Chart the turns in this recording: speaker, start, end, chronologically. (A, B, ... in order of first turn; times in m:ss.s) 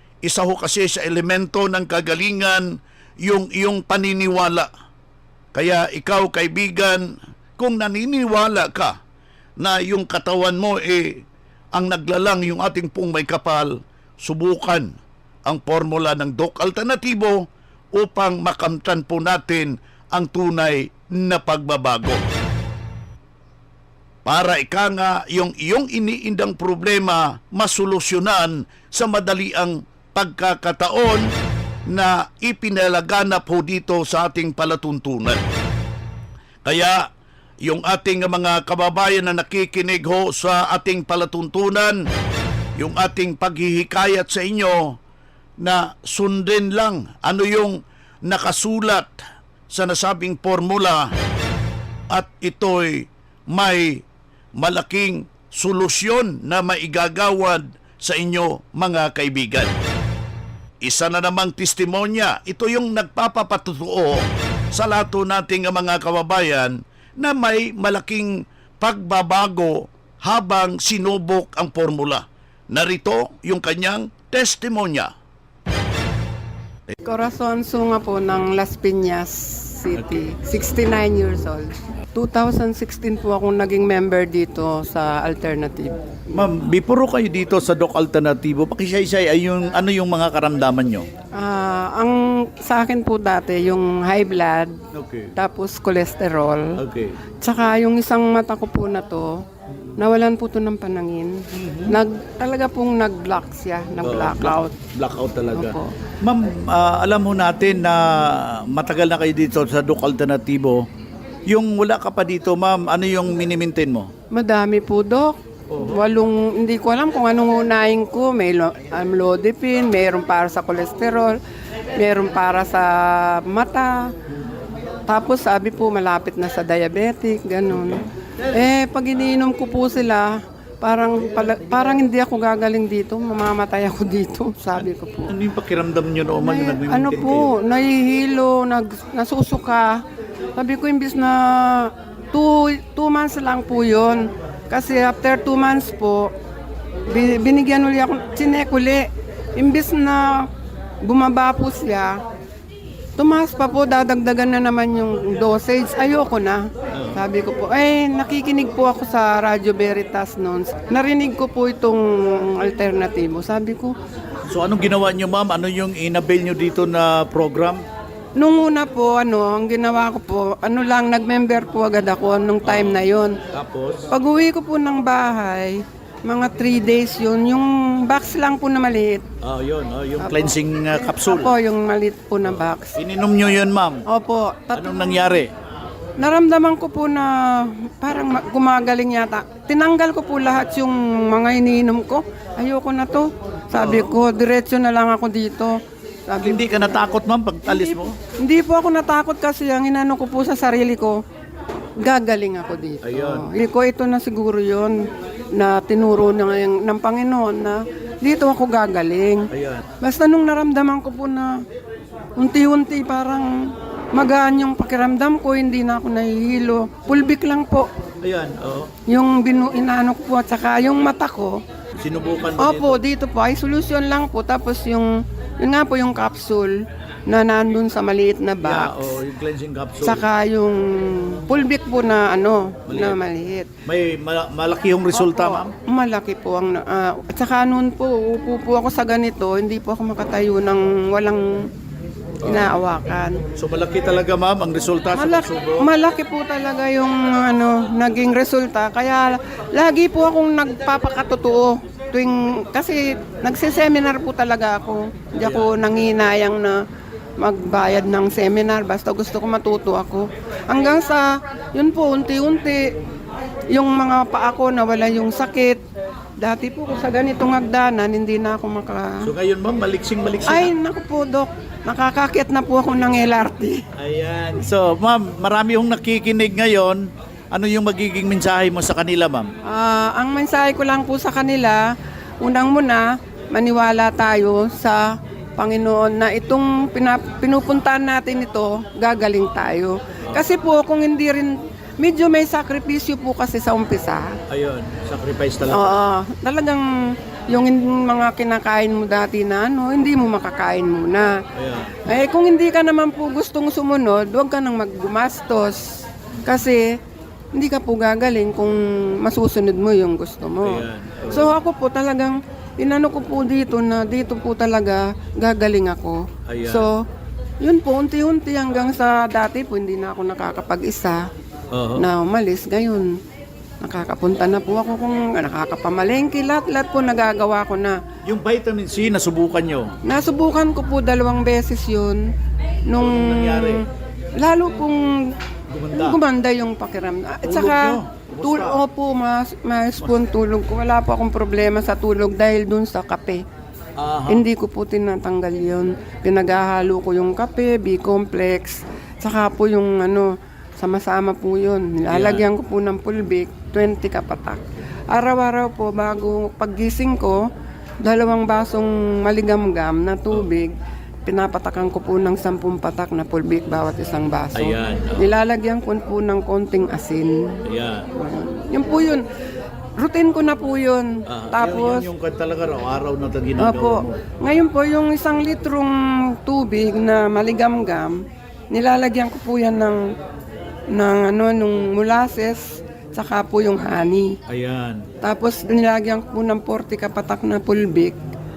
0:00.2-0:04.7 A
0:05.5-0:09.0 A
0:09.6-0:11.2 A
0:11.7-0:14.9 A
0:15.5-0:22.2 A
0:24.2-0:31.3 A
0:31.9-0:35.4 A
0:36.6-0:37.1 A
0:37.6-0:42.0 A
0:42.8-0:45.0 A
0:45.6-0:49.2 A
0:49.7-0:51.1 A
0:52.1-0:54.0 A
0:54.6-0:59.7 A
1:00.8-1:04.2 A
1:04.7-1:15.1 A
1:17.0-1:26.0 B
1:26.3-1:31.1 C
1:31.4-1:34.8 B
1:34.9-1:35.3 C
1:35.4-1:36.8 B
1:36.8-1:37.1 C
1:37.4-1:39.3 B
1:40.0-1:44.8 B
1:41.5-1:42.0 C
1:44.0-1:50.8 C
1:45.5-1:45.9 B
1:51.5-1:54.1 C
1:54.3-2:01.4 B
1:55.7-1:56.0 C
2:02.0-2:04.1 B
2:05.1-2:15.3 B
2:07.7-2:08.0 C
2:14.8-2:17.5 C
2:16.4-2:20.0 B
2:20.6-2:26.3 B
2:27.1-2:30.5 B
2:31.0-2:32.2 B
2:33.2-2:44.0 B
2:44.5-2:47.8 C
2:48.4-2:53.4 B
2:52.6-2:54.1 C
2:54.1-2:59.2 B
2:59.4-3:01.5 C
3:01.0-3:02.9 B
3:02.4-3:04.0 C
3:04.1-3:05.4 B
3:04.7-3:05.5 C
3:06.2-3:17.0 B
3:13.8-3:14.1 C
3:16.4-3:18.2 C
3:18.4-3:21.2 B
3:22.0-3:29.5 B
3:23.0-3:23.4 C
3:29.5-3:29.8 C
3:30.0-3:31.6 B
3:32.4-3:37.9 B
3:38.2-3:38.9 C
3:39.1-3:41.6 B
3:42.0-3:43.0 C
3:42.6-3:49.2 B
3:48.6-3:50.2 C
3:50.0-3:53.7 B
3:52.9-3:53.2 C
3:53.9-3:55.7 C
3:55.1-4:01.7 B
4:02.4-4:02.7 C
4:02.5-4:03.4 B
4:03.6-4:05.8 C
4:05.2-4:16.8 B
4:15.4-4:15.7 C
4:17.4-4:22.9 B
4:23.7-4:25.8 B
4:26.4-4:29.3 B
4:29.2-4:30.7 C
4:30.5-4:33.8 B
4:34.0-4:39.5 C
4:39.7-4:41.8 B
4:42.4-4:54.3 B
4:54.5-4:56.0 C
4:55.7-4:56.9 B
4:57.5-5:01.3 B
5:01.6-5:02.0 C
5:02.1-5:07.0 B
5:07.6-5:17.0 B
5:10.6-5:11.5 C
5:16.5-5:16.9 C
5:17.6-5:21.3 B
5:21.7-5:22.0 C
5:22.0-5:23.1 B
5:23.8-5:28.0 B
5:28.2-5:29.9 C
5:30.0-5:32.3 B
5:32.9-5:33.8 B
5:33.0-5:33.8 C
5:34.4-5:35.4 B
5:35.7-5:36.2 C
5:35.9-5:43.4 B
5:37.4-5:38.8 C
5:44.0-5:44.4 C
5:44.3-5:57.5 B
5:52.1-5:52.4 C
5:58.0-6:00.7 B
6:01.2-6:07.6 B
6:04.6-6:05.2 C
6:07.7-6:08.1 C
6:08.1-6:09.2 B
6:10.0-6:12.1 B
6:11.3-6:14.2 C
6:13.6-6:20.1 B
6:20.9-6:24.4 B
6:24.5-6:25.1 C
6:25.2-6:28.2 B